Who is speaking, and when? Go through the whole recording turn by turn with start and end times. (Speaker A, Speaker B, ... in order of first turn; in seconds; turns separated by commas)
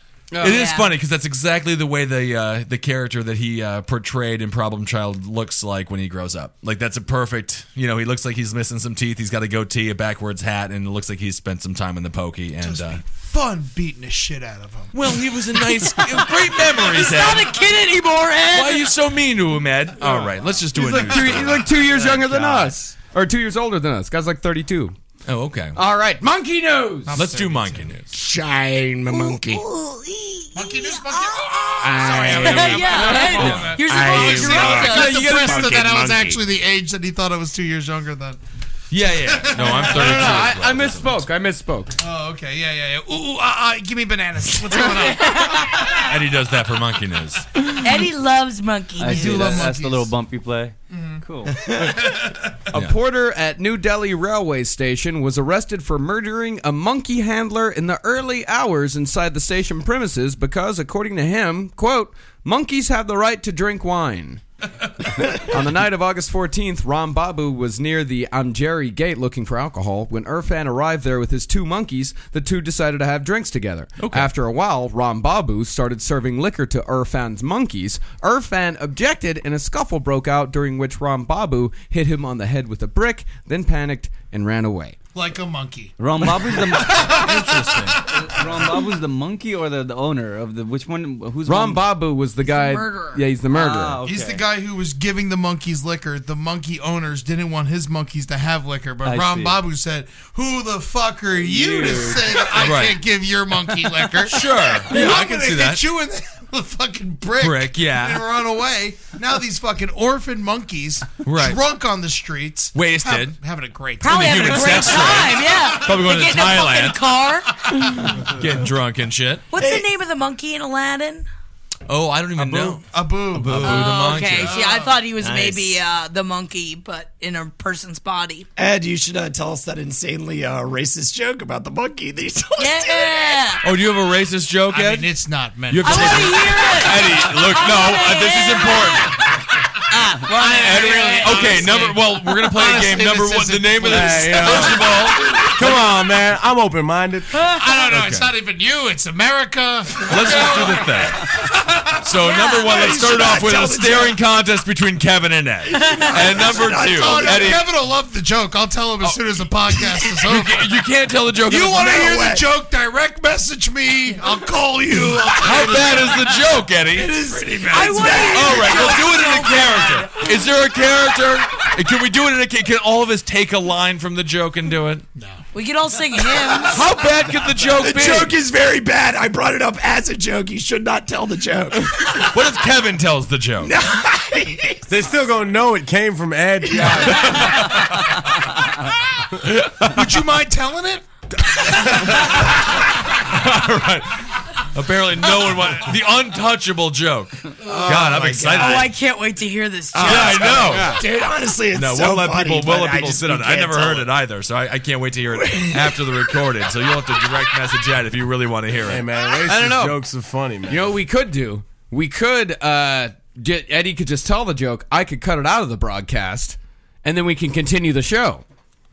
Speaker A: 0.3-0.6, Speaker B: 0.4-0.9, Speaker C: 0.4-13.0, Speaker D: 12.6-15.0, Speaker C: 14.9-17.6, Speaker B: 16.0-18.9, Speaker C: 18.5-21.8, Speaker D: 20.0-22.3, Speaker A: 20.8-24.9, Speaker C: 25.3-25.8, Speaker A: 25.8-27.2, Speaker D: 27.1-28.0, Speaker C: 27.1-28.1, Speaker E: 28.1-29.6, Speaker B: 29.1-31.4, Speaker D: 30.6-38.4, Speaker E: 31.8-36.4, Speaker B: 32.4-35.6, Speaker A: 32.9-33.5, Speaker C: 33.3-33.8, Speaker A: 35.2-35.6, Speaker C: 38.9-41.2, Speaker D: 39.2-40.5, Speaker A: 39.8-42.0, Speaker D: 42.0-46.0, Speaker B: 44.8-46.1, Speaker C: 45.9-47.6, Speaker B: 47.7-49.6, Speaker F: 49.0-51.5, Speaker D: 49.0-50.2, Speaker D: 50.9-52.6, Speaker E: 51.7-52.0, Speaker A: 52.7-64.4, Speaker A: 65.1-85.0, Speaker C: 74.0-74.3, Speaker D: 85.2-89.0, Speaker F: 86.0-87.3, Speaker C: 87.0-88.0, Speaker F: 88.0-91.9, Speaker A: 91.5-94.0, Speaker B: 92.4-93.2, Speaker F: 93.5-94.5, Speaker D: 94.0-116.0, Speaker F: 99.0-99.6, Speaker F: 101.5-102.2, Speaker A: 101.7-102.1, Speaker C: 102.5-103.0, Speaker C: 104.2-105.8, Speaker C: 107.4-108.3, Speaker C: 111.2-111.6, Speaker C: 112.7-113.4, Speaker B: 114.0-118.2, Speaker C: 114.0-119.5, Speaker B: 119.5-121.3, Speaker E: 119.6-119.9, Speaker C: 121.9-124.6, Speaker D: 122.4-125.1, Speaker B: 123.5-128.5, Speaker E: 125.2-125.8, Speaker E: 128.6-133.5, Speaker B: 132.6-133.6, Speaker C: 133.6-135.1, Speaker D: 134.7-136.9, Speaker C: 135.7-139.3, Speaker B: 135.8-139.4, Speaker B: 139.9-141.8, Speaker C: 140.2-145.8, Speaker D: 140.2-145.8, Speaker G: 143.9-144.9, Speaker G: 145.5-147.4, Speaker D: 147.4-152.1, Speaker C: 147.9-148.3, Speaker C: 150.1-151.3, Speaker C: 152.0-157.7, Speaker E: 152.2-154.2, Speaker B: 152.3-152.7, Speaker B: 155.7-156.2, Speaker E: 155.8-157.6, Speaker D: 156.8-160.7, Speaker C: 160.1-161.9, Speaker D: 161.5-166.4, Speaker E: 161.7-162.5, Speaker C: 165.3-167.2, Speaker E: 166.9-169.0, Speaker D: 167.0-168.7, Speaker B: 167.7-170.3, Speaker C: 168.2-175.1, Speaker D: 175.2-175.5, Speaker B: 175.5-176.9, Speaker C: 176.7-178.4, Speaker E: 177.8-182.4, Speaker C: 182.2-183.7, Speaker E: 183.6-184.8, Speaker G: 184.9-187.3, Speaker E: 186.6-187.7, Speaker D: 186.9-187.4, Speaker C: 187.0-188.1, Speaker C: 189.4-190.0, Speaker D: 189.8-191.1, Speaker D: 191.7-192.2, Speaker C: 191.7-198.9, Speaker D: 197.6-198.2, Speaker E: 197.6-198.9, Speaker B: 198.5-200.6, Speaker E: 199.9-204.1, Speaker C: 200.0-201.0, Speaker D: 200.5-200.9, Speaker A: 200.7-201.0, Speaker C: 201.7-209.1, Speaker E: 205.3-207.3, Speaker G: 208.9-210.9, Speaker A: 209.5-210.0, Speaker A: 210.7-218.4